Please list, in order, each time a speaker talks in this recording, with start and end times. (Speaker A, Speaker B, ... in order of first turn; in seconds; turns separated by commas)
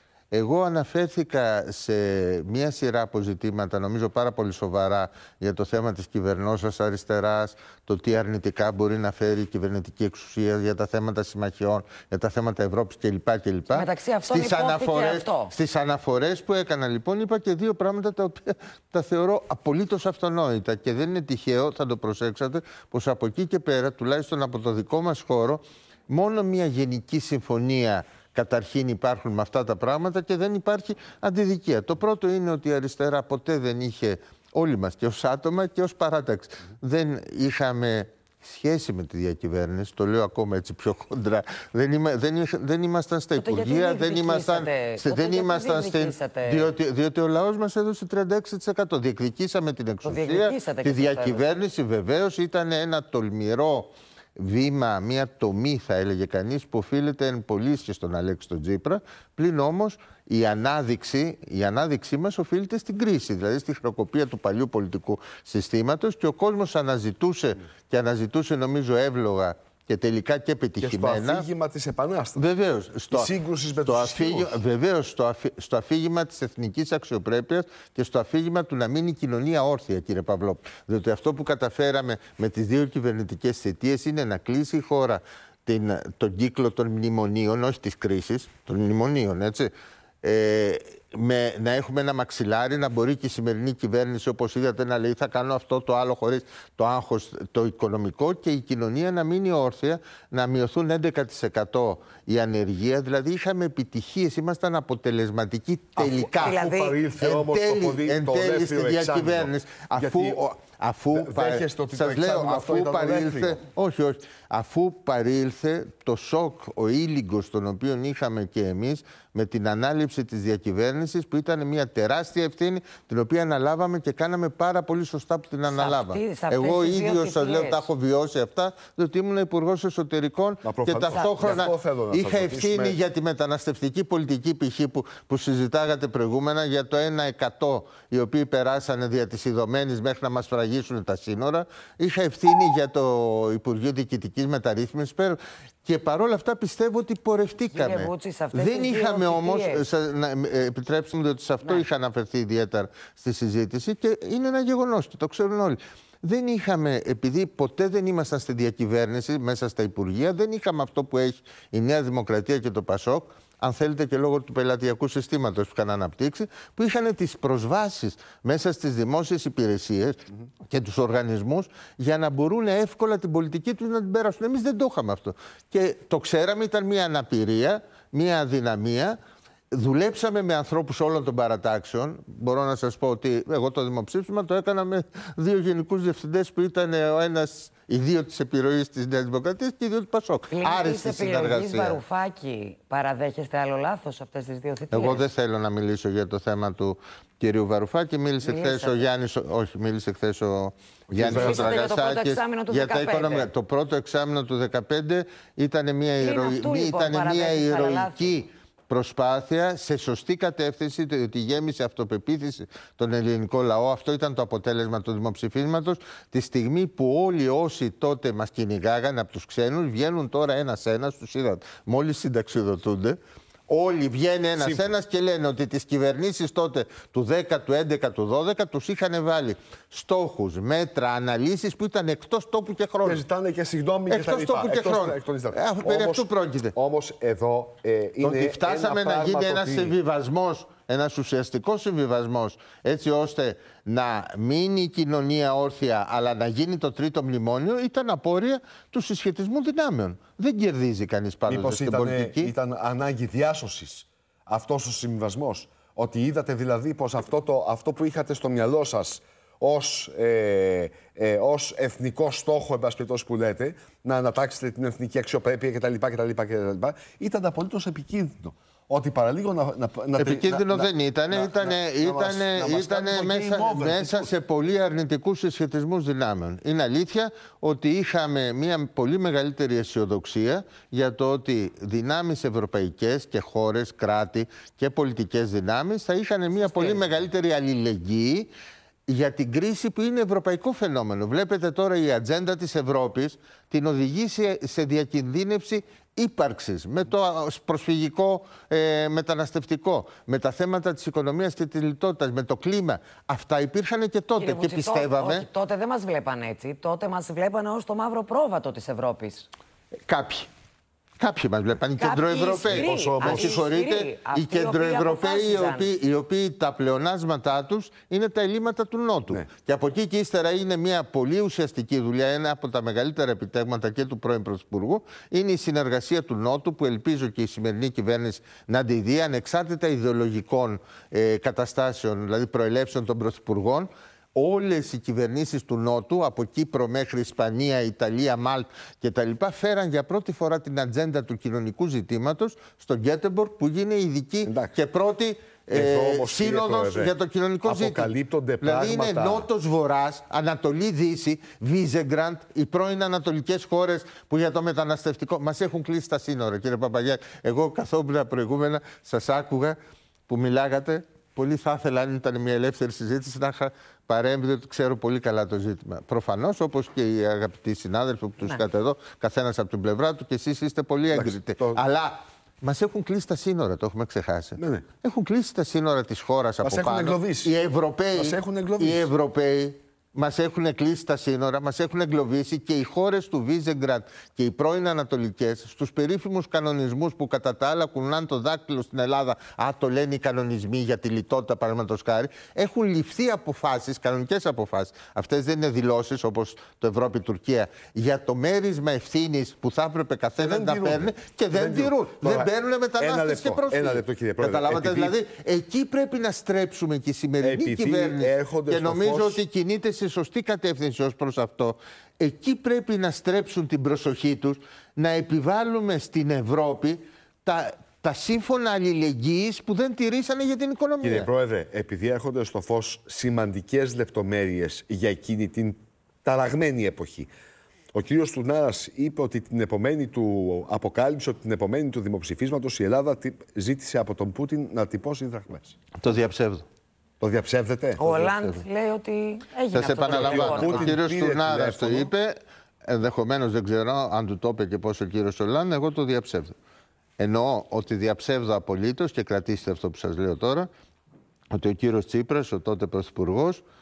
Speaker A: 0.3-71.5, Speaker B: 13.7-15.5, Speaker B: 43.4-46.7, Speaker B: 50.0-51.5, Speaker C: 70.8-72.4, Speaker A: 72.4-106.6, Speaker C: 73.1-74.6, Speaker C: 106.0-110.4, Speaker B: 106.4-107.0, Speaker A: 107.2-179.2, Speaker C: 111.1-113.6, Speaker B: 125.7-127.9, Speaker C: 130.6-133.0, Speaker B: 131.1-131.6, Speaker B: 147.7-149.9, Speaker A: 179.7-192.0, Speaker B: 190.5-195.2, Speaker A: 194.9-223.2, Speaker B: 198.4-199.0, Speaker C: 201.1-201.7, Speaker B: 201.2-203.5, Speaker B: 206.2-208.4, Speaker A: 223.7-233.2, Speaker C: 224.6-224.9, Speaker C: 233.0-240.0, Speaker A: 234.1-236.8, Speaker A: 238.2-252.5, Speaker C: 251.5-274.3, Speaker A: 270.2-288.5, Speaker B: 286.6-287.1, Speaker A: 289.1-305.5, Speaker B: 304.4-309.5, Speaker A: 310.1-310.5, Speaker A: 311.2-359.8, Speaker B: 312.0-315.9, Speaker C: 312.7-313.6, Speaker C: 344.5-344.7, Speaker C: 345.7-347.1, Speaker C: 347.7-349.5, Speaker A: 360.3-421.3, Speaker C: 371.1-371.8, Speaker C: 374.6-374.9, Speaker C: 376.6-377.5, Speaker C: 378.1-379.1, Speaker C: 400.4-405.1, Speaker C: 407.4-409.4, Speaker C: 421.0-427.3, Speaker C: 427.9-435.8, Speaker A: 436.0-436.6, Speaker C: 437.2-438.1, Speaker B: 438.0-440.9, Speaker A: 438.0-438.6, Speaker A: 439.7-446.5, Speaker C: 440.0-442.1, Speaker A: 447.2-450.7, Speaker A: 451.5-453.6